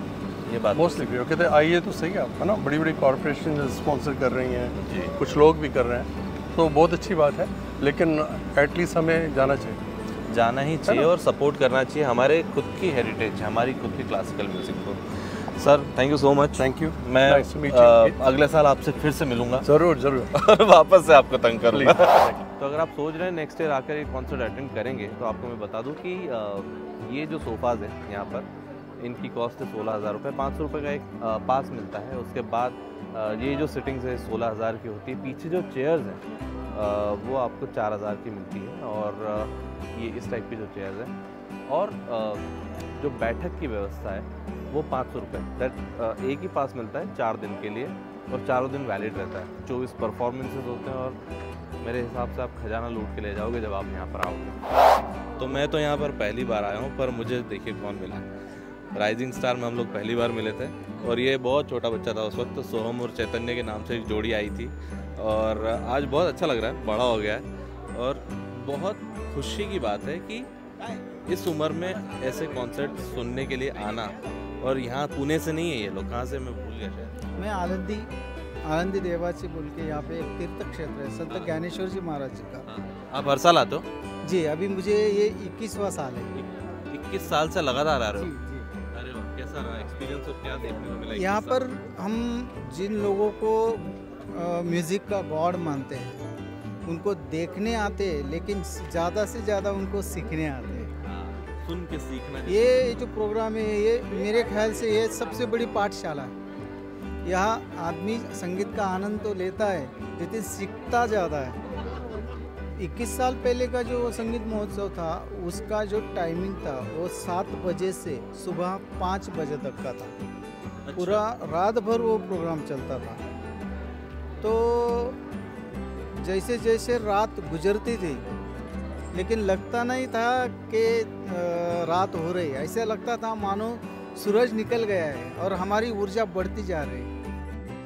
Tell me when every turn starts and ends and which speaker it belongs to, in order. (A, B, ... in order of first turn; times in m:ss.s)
0:00.4-0:01.2 A
0:00.7-0:09.8 B
0:04.7-0:05.1 A
0:10.3-0:19.7 A
0:16.6-0:18.2 B
0:19.6-0:20.3 B
0:20.3-0:28.5 A
0:21.7-0:22.4 B
0:29.0-0:41.1 A
0:41.7-0:42.4 A
0:43.0-0:51.2 A
0:51.8-0:54.6 A
0:55.4-0:58.3 A
0:58.9-1:10.5 A
1:11.2-1:17.1 A
1:17.4-1:18.1 C
1:18.7-1:22.6 C
1:21.3-1:21.6 A
1:22.6-1:23.9 A
1:24.2-1:26.3 C
1:26.3-1:28.3 A
1:28.2-1:28.7 C
1:28.9-1:31.8 A
1:31.1-1:36.2 C
1:36.9-1:40.9 C
1:41.0-1:43.0 A
1:42.5-1:46.3 C
1:47.2-1:51.6 C
1:52.8-2:00.1 C
2:00.9-2:01.3 A
2:01.0-2:03.2 C
2:04.4-2:05.2 C
2:06.2-2:08.2 C
2:09.1-2:17.1 C